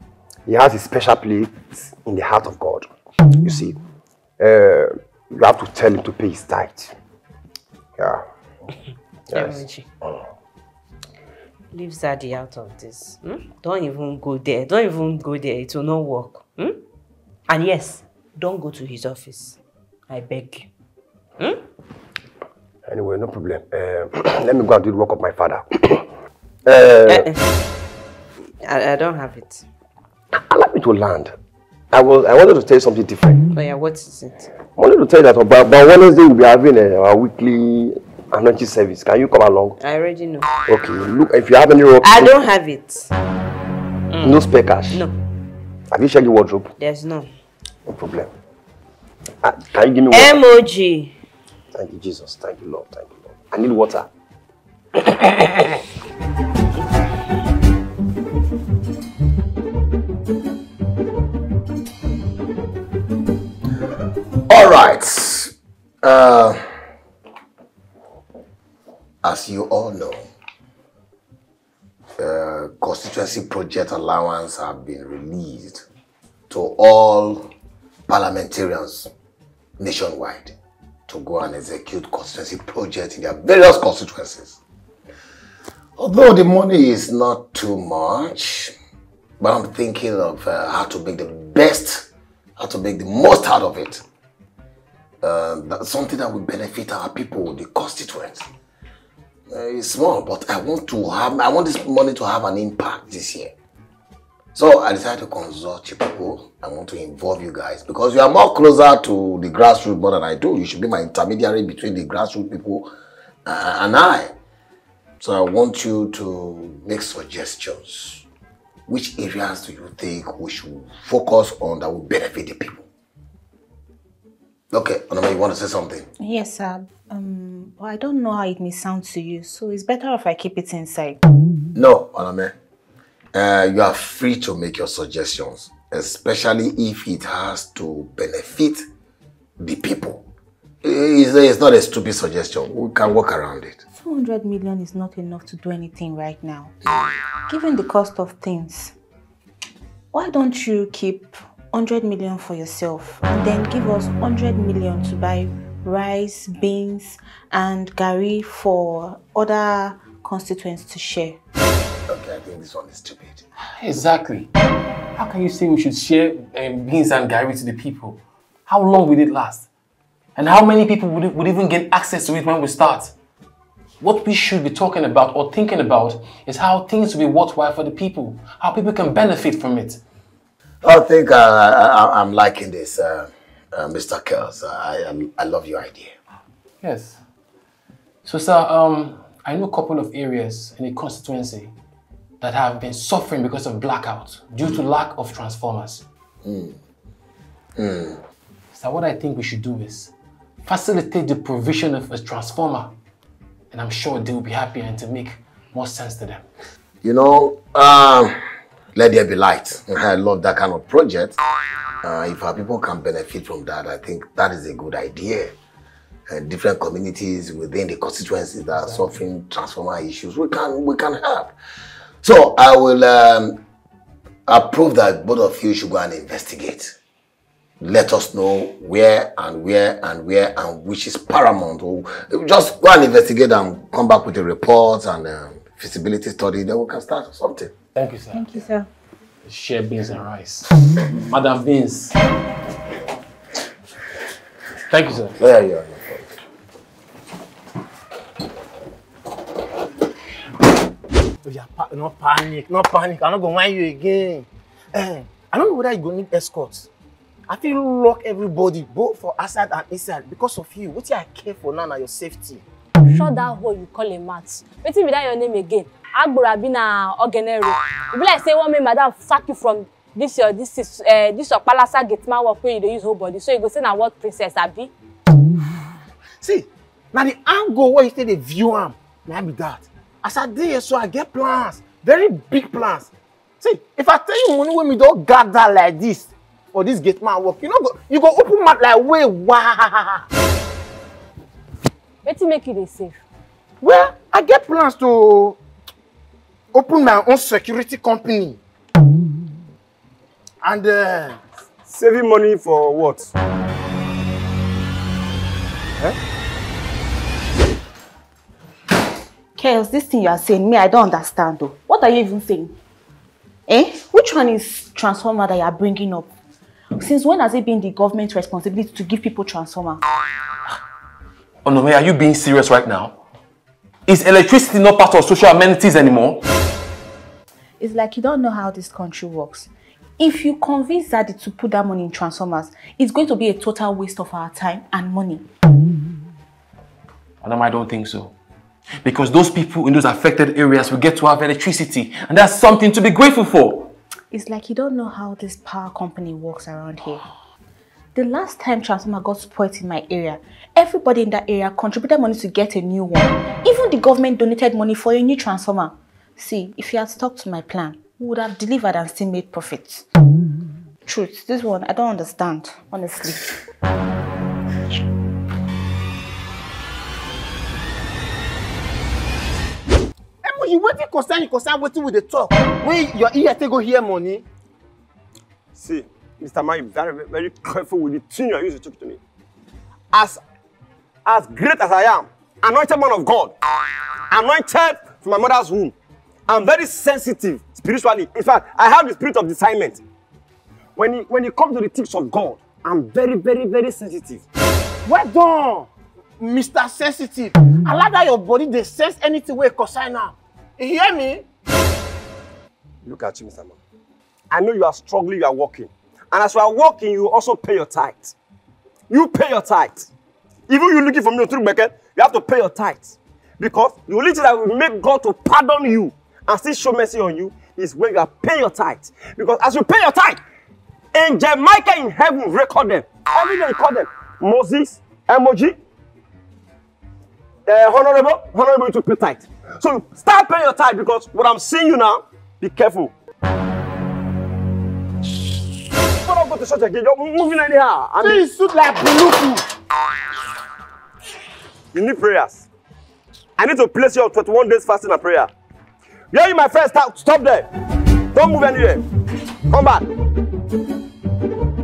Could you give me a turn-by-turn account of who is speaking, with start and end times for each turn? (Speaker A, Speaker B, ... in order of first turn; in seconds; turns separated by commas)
Speaker A: 0.5-2.9, Speaker A: 3.4-3.8, Speaker A: 4.4-6.9, Speaker A: 9.3-9.6, Speaker B: 9.3-9.9, Speaker B: 11.7-16.8, Speaker B: 17.5-19.6, Speaker B: 20.1-20.7, Speaker A: 22.9-26.1, Speaker A: 26.6-27.3, Speaker B: 27.0-27.5, Speaker B: 28.6-29.6, Speaker A: 30.3-31.3, Speaker A: 31.9-33.4, Speaker B: 33.5-34.5, Speaker A: 34.7-39.8, Speaker B: 39.8-40.5, Speaker A: 40.7-42.3, Speaker B: 42.0-43.1, Speaker B: 44.1-45.1, Speaker A: 44.2-45.0, Speaker A: 45.9-46.7, Speaker B: 46.8-47.3, Speaker A: 47.9-48.3, Speaker A: 49.4-50.4, Speaker B: 50.1-51.1, Speaker A: 51.7-54.1, Speaker A: 55.1-55.6, Speaker C: 64.5-65.5, Speaker C: 66.0-66.6, Speaker C: 69.2-70.3, Speaker C: 72.2-75.8, Speaker C: 76.5-77.5, Speaker C: 78.1-79.1, Speaker C: 79.8-80.5, Speaker C: 81.1-84.6, Speaker C: 86.0-88.7, Speaker C: 89.4-92.0, Speaker C: 92.6-94.0, Speaker C: 95.2-98.5, Speaker C: 99.5-103.5, Speaker C: 104.5-112.9, Speaker C: 113.5-114.3, Speaker C: 115.2-118.2, Speaker C: 118.9-122.8, Speaker C: 124.7-126.1, Speaker D: 126.2-131.2, Speaker C: 131.7-132.5, Speaker C: 133.3-138.8, Speaker C: 139.6-140.2, Speaker C: 140.8-143.8, Speaker D: 143.9-146.7, Speaker D: 147.5-148.9, Speaker D: 150.1-161.4, Speaker C: 162.1-163.4, Speaker E: 163.8-164.5, Speaker E: 165.2-169.7, Speaker E: 170.3-173.1, Speaker E: 174.0-180.0, Speaker C: 180.8-186.1, Speaker E: 186.8-187.2, Speaker E: 188.2-191.7, Speaker E: 192.4-196.0, Speaker C: 196.4-196.8, Speaker C: 197.8-198.2, Speaker E: 198.7-200.1, Speaker E: 200.6-202.9, Speaker E: 203.7-206.4, Speaker C: 207.0-208.3, Speaker C: 208.9-211.3, Speaker C: 212.0-215.5, Speaker C: 216.3-221.5, Speaker C: 222.2-223.6, Speaker C: 224.5-226.9, Speaker C: 227.8-237.7, Speaker E: 237.9-238.5, Speaker D: 238.3-238.9, Speaker E: 239.4-242.2, Speaker E: 244.9-245.4, Speaker C: 245.4-246.3, Speaker F: 251.4-256.9, Speaker F: 257.5-262.6, Speaker G: 263.1-274.9, Speaker F: 276.4-283.1, Speaker F: 283.6-290.2, Speaker G: 292.2-293.2, Speaker F: 293.8-295.6, Speaker F: 296.7-298.6, Speaker F: 300.6-301.4, Speaker A: 301.9-303.3, Speaker D: 309.6-312.8, Speaker D: 313.7-316.3, Speaker D: 317.0-320.0, Speaker E: 321.6-323.2, Speaker E: 324.1-326.4, Speaker D: 327.8-335.4, Speaker E: 337.4-338.3, Speaker E: 339.0-343.9, Speaker D: 344.3-347.2, Speaker D: 348.1-360.0, Speaker D: 361.1-363.6, Speaker F: 370.4-374.4, Speaker A: 375.7-379.2, Speaker A: 380.1-380.4, Speaker A: 381.2-383.5, Speaker A: 384.3-385.9, Speaker A: 386.5-390.0, Speaker A: 390.9-394.4, Speaker F: 395.1-395.9, Speaker F: 396.4-401.4, Speaker A: 403.0-403.8, Speaker A: 404.5-408.3, Speaker A: 409.1-410.1, Speaker A: 410.7-420.4, Speaker A: 421.1-425.8, Speaker A: 427.6-433.1, Speaker A: 436.2-438.5, Speaker F: 438.2-439.6, Speaker A: 441.9-442.6, Speaker A: 443.6-445.5, Speaker A: 446.3-447.7, Speaker A: 448.3-449.0, Speaker A: 449.7-450.1